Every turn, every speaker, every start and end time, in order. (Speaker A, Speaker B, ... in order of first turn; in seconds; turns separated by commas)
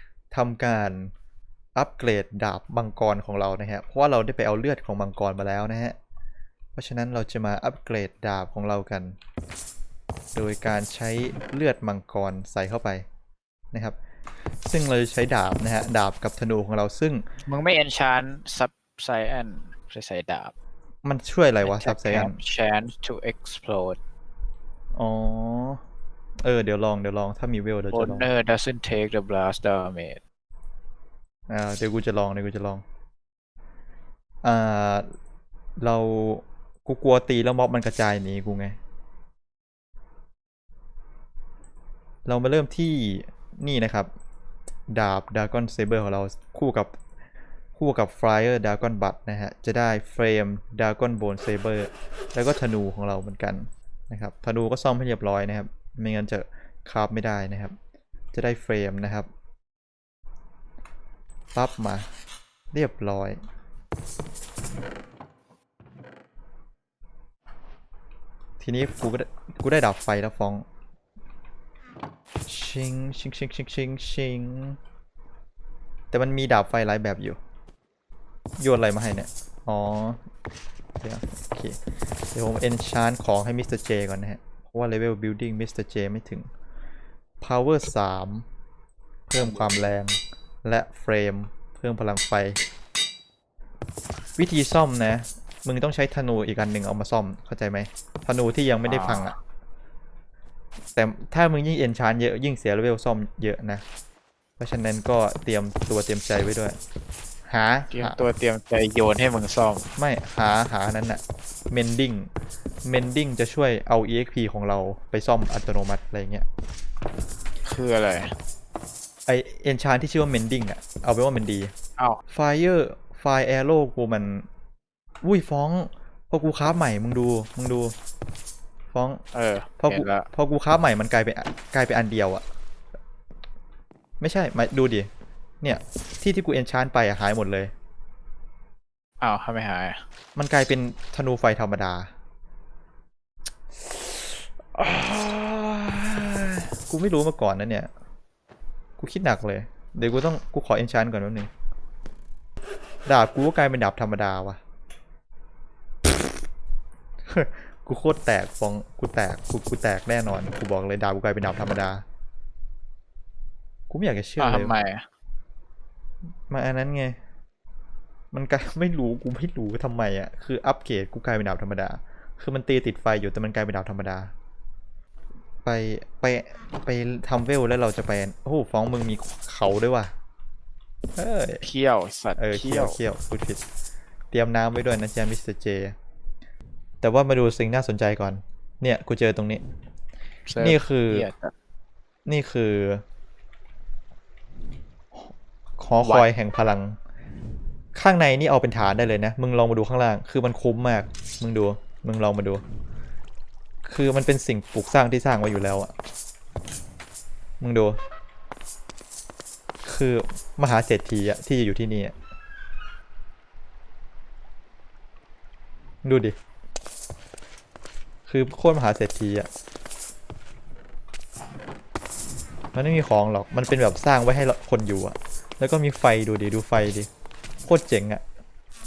Speaker A: 0.3-1.1, Speaker A: 1.8-6.0, Speaker A: 6.8-9.2, Speaker A: 10.3-13.1, Speaker A: 14.7-17.2, Speaker B: 17.5-20.5, Speaker A: 21.1-22.4, Speaker B: 21.6-24.0, Speaker A: 24.9-25.8, Speaker A: 26.4-28.3, Speaker B: 27.9-30.2, Speaker A: 31.5-32.8, Speaker A: 34.4-35.1, Speaker A: 35.8-38.8, Speaker A: 42.3-44.1, Speaker A: 44.9-46.9, Speaker A: 47.8-57.8, Speaker A: 58.3-59.3, Speaker A: 61.5-62.1, Speaker A: 62.7-63.4, Speaker A: 68.6-70.7, Speaker A: 72.5-74.8, Speaker A: 76.1-77.4, Speaker A: 78.6-80.2, Speaker A: 81.0-81.8, Speaker A: 82.3-86.5, Speaker A: 87.4-88.5, Speaker A: 89.3-92.6, Speaker A: 94.4-99.3, Speaker B: 98.8-99.3, Speaker A: 101.0-103.8, Speaker A: 104.6-106.8, Speaker A: 107.5-108.2, Speaker B: 107.9-109.8, Speaker A: 110.0-112.3, Speaker A: 112.8-116.5, Speaker B: 117.6-118.3, Speaker A: 119.3-121.7, Speaker A: 122.3-124.5, Speaker A: 125.2-127.9, Speaker A: 128.9-129.2, Speaker B: 129.3-130.3, Speaker A: 129.8-132.4, Speaker A: 134.2-135.1, Speaker A: 135.6-137.7, Speaker B: 139.2-140.0, Speaker A: 140.4-142.1, Speaker A: 143.8-147.9, Speaker A: 149.0-151.5, Speaker A: 153.1-154.6, Speaker A: 157.3-162.0, Speaker A: 163.9-164.7, Speaker B: 164.4-165.0, Speaker A: 166.5-167.2, Speaker A: 168.3-174.3, Speaker A: 175.6-180.1, Speaker A: 181.2-181.6, Speaker B: 181.6-183.0, Speaker A: 182.4-183.6, Speaker A: 184.3-186.0, Speaker A: 187.0-189.6, Speaker B: 190.5-191.5, Speaker A: 190.6-191.3, Speaker A: 192.3-193.0, Speaker A: 195.2-197.0, Speaker B: 196.0-196.3, Speaker A: 197.9-202.6, Speaker A: 203.8-205.9, Speaker A: 207.6-208.0, Speaker A: 209.8-212.2, Speaker A: 216.0-216.4, Speaker A: 218.3-219.5, Speaker A: 222.7-227.1, Speaker A: 227.6-228.2